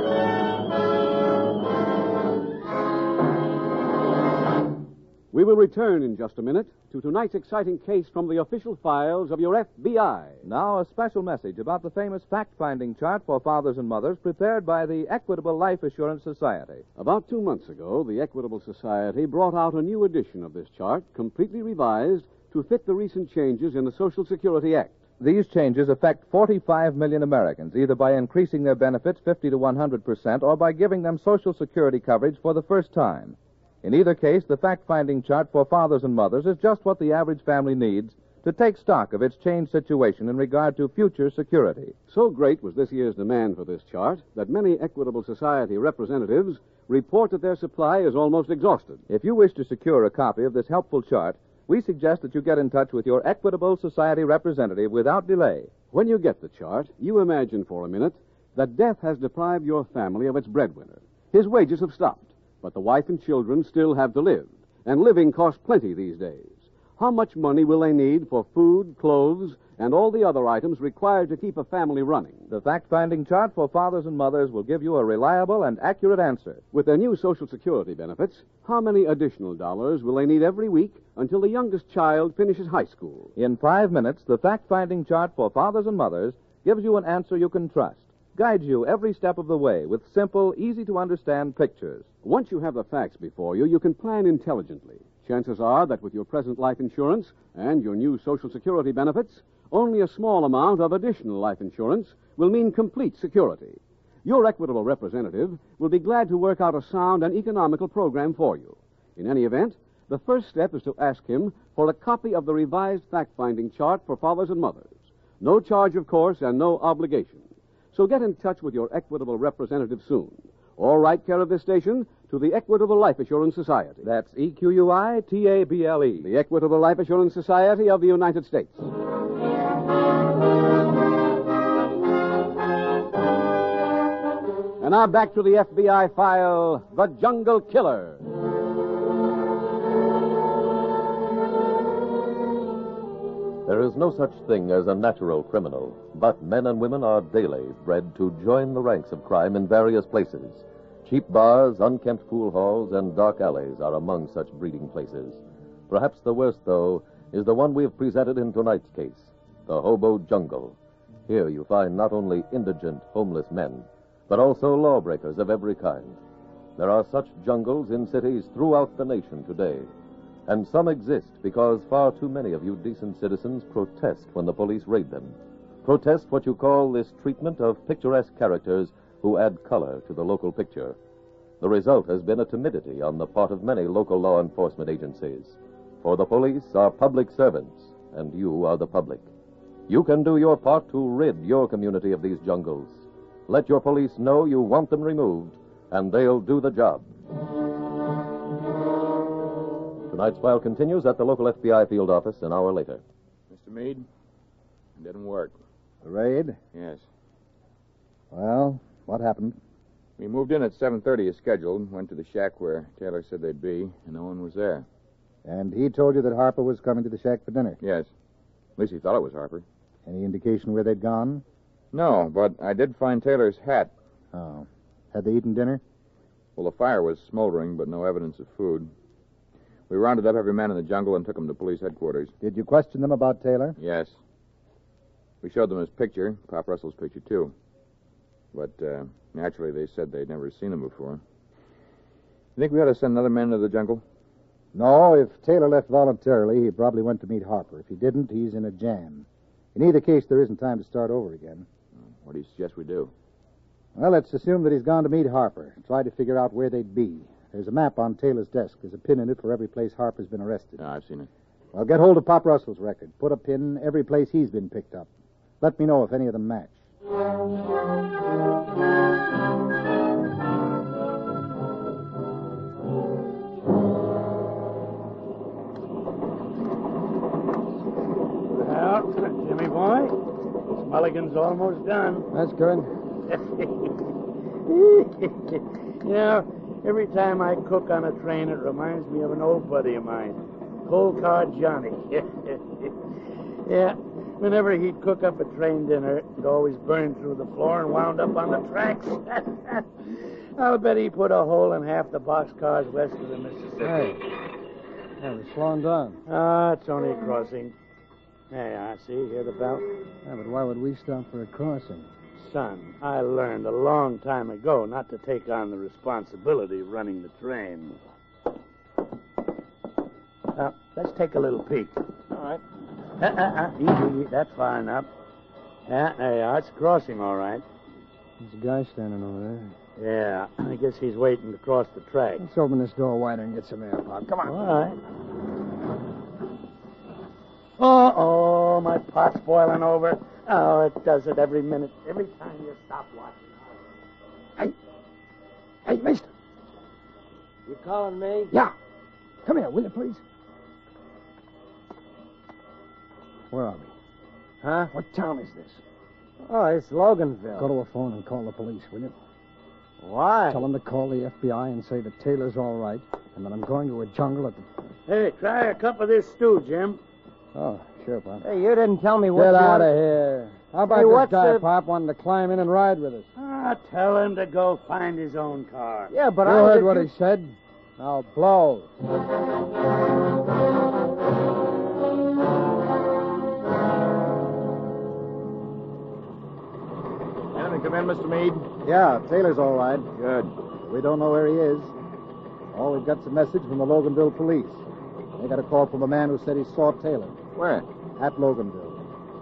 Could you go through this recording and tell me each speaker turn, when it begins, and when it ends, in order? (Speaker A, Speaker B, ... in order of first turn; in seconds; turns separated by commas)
Speaker A: 5.3-10.4, Speaker B: 10.4-16.8, Speaker A: 16.9-25.0, Speaker B: 25.2-41.9, Speaker A: 42.1-49.0, Speaker B: 49.1-55.8, Speaker A: 55.9-72.5, Speaker B: 72.5-76.6, Speaker A: 76.7-83.3, Speaker B: 83.3-92.1, Speaker A: 92.2-124.0, Speaker B: 124.0-126.3, Speaker A: 126.2-128.9, Speaker A: 134.8-138.2, Speaker C: 143.7-160.8, Speaker C: 161.3-166.2, Speaker C: 166.8-169.9, Speaker C: 170.5-180.9, Speaker C: 181.6-189.2, Speaker C: 189.9-197.1, Speaker C: 200.1-203.0, Speaker D: 203.5-204.0, Speaker D: 205.0-205.5, Speaker E: 206.0-206.6, Speaker D: 206.7-207.0, Speaker E: 208.3-209.6, Speaker D: 210.2-214.8, Speaker E: 215.4-217.8, Speaker D: 217.8-218.1, Speaker D: 218.8-219.6, Speaker E: 220.1-221.4, Speaker D: 221.9-223.9, Speaker E: 224.3-225.8, Speaker D: 226.6-228.9, Speaker D: 229.9-232.3, Speaker E: 232.4-233.8, Speaker D: 233.8-234.2, Speaker D: 235.4-237.5, Speaker D: 238.5-241.2, Speaker D: 242.6-244.0, Speaker E: 244.7-251.7, Speaker D: 252.1-253.1, Speaker E: 253.9-260.8, Speaker D: 260.8-261.3, Speaker E: 261.7-265.1, Speaker E: 265.6-266.8, Speaker F: 278.5-282.3, Speaker G: 282.3-282.9, Speaker F: 283.3-284.0, Speaker F: 284.6-304.2, Speaker G: 303.8-304.2, Speaker G: 305.2-306.2, Speaker F: 306.3-307.7, Speaker F: 308.5-309.9, Speaker G: 310.2-312.1, Speaker F: 312.4-318.0, Speaker F: 320.5-322.6, Speaker F: 323.1-325.1, Speaker F: 325.9-327.6, Speaker G: 328.4-329.7, Speaker F: 330.0-332.4, Speaker G: 332.4-334.6, Speaker F: 334.4-335.0, Speaker F: 337.8-343.6, Speaker G: 345.9-346.2, Speaker H: 347.7-348.5, Speaker G: 349.4-350.2, Speaker G: 353.5-353.9, Speaker H: 354.6-354.9, Speaker G: 354.9-355.8, Speaker H: 356.4-357.7, Speaker G: 357.6-359.1, Speaker H: 360.0-360.6, Speaker G: 360.5-364.6, Speaker F: 365.1-367.0, Speaker G: 367.5-368.4, Speaker H: 368.4-369.9, Speaker G: 369.3-373.3, Speaker H: 370.9-371.7, Speaker F: 373.4-376.1, Speaker H: 376.1-377.1, Speaker G: 376.4-378.9, Speaker D: 387.5-388.7, Speaker E: 388.8-390.1, Speaker D: 390.1-390.5, Speaker E: 390.8-391.9, Speaker E: 392.7-394.8, Speaker E: 395.4-397.4, Speaker D: 397.6-397.8, Speaker E: 398.1-399.0